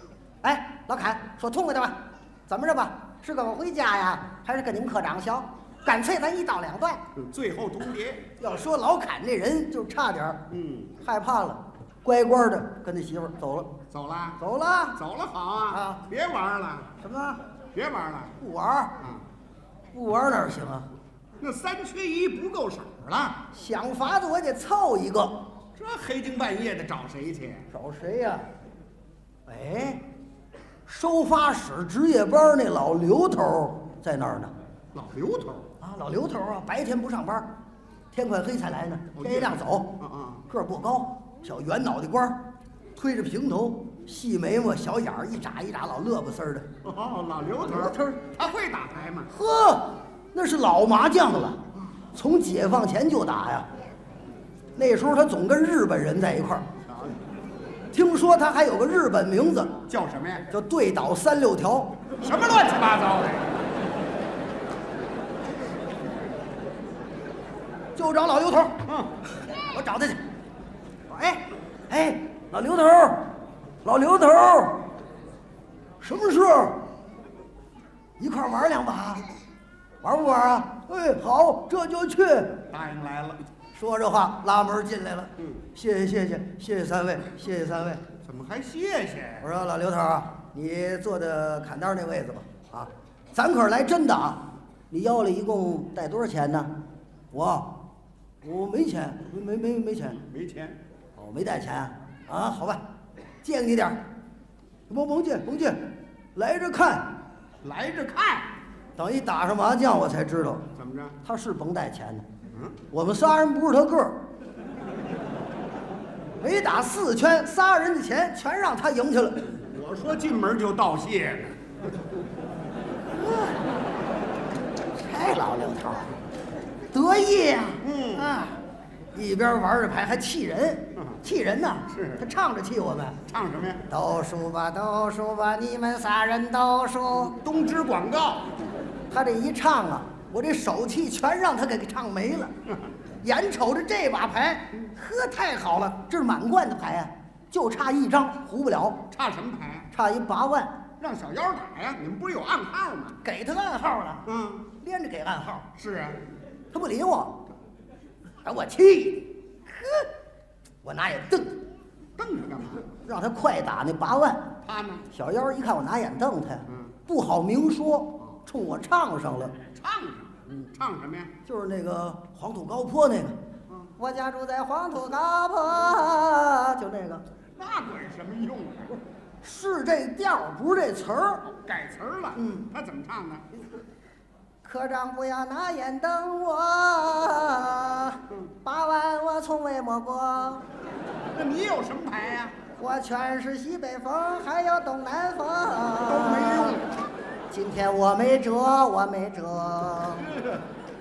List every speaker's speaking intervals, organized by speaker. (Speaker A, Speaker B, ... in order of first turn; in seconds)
Speaker A: 0.4-7.0, 8.4-10.4, 11.0-13.7, 14.4-15.0, 15.7-16.1, 17.0-17.4, 18.4-18.9, 19.9-20.9, 23.5-25.4, 27.7-28.5, 29.5-30.0, 30.9-34.5, 35.8-37.5, 38.1-40.0, 40.5-42.4, 43.0-46.7, 47.6-48.2, 49.3-51.6, 52.1-53.7, 54.8-56.7, 57.9-59.8, 60.5-62.0, 68.0-68.8, 69.7-70.2, 71.1-73.3, 73.8-74.9, 76.0-76.8, 78.2-79.3, 80.0-82.6, 83.7-88.0, 89.4-96.7, 97.3-97.8, 98.4-100.2, 101.2-102.8, 103.4-104.0, 104.9-107.2, 109.0-110.7, 111.2-112.3, 112.9-114.2, 116.4-119.5, 125.0-126.1, 126.9-128.6, 129.1-133.2, 133.9-137.4, 139.1-142.5, 143.2-149.0, 149.9-150.8, 153.2-155.7, 156.7-157.4, 158.4-160.1, 160.8-161.6, 163.0-164.5, 165.1-169.6, 171.5-173.4, 174.0-177.2, 179.4-181.4, 182.4-182.7, 184.6-190.7, 192.8-196.8, 197.5-200.3
Speaker B: 7.2-8.3, 10.5-10.9, 13.9-14.4, 15.0-16.9, 17.7-18.4, 21.4-23.4, 25.8-27.7, 34.9-35.7, 39.1-40.4, 46.8-49.3, 56.9-57.2, 59.9-60.5, 62.2-63.5, 68.8-69.2, 82.7-83.4, 88.2-89.5, 100.1-100.8, 107.6-108.5, 110.8-111.2, 119.6-121.6, 127.8-128.3, 131.9-132.2, 133.3-133.8, 137.3-138.5, 149.1-149.9, 151.0-153.2, 154.3-154.7, 155.8-156.2, 162.2-162.9, 164.6-165.1, 166.7-166.9, 169.7-171.3, 177.6-179.0, 181.4-183.5, 191.3-192.6, 196.0-196.9, 200.2-200.7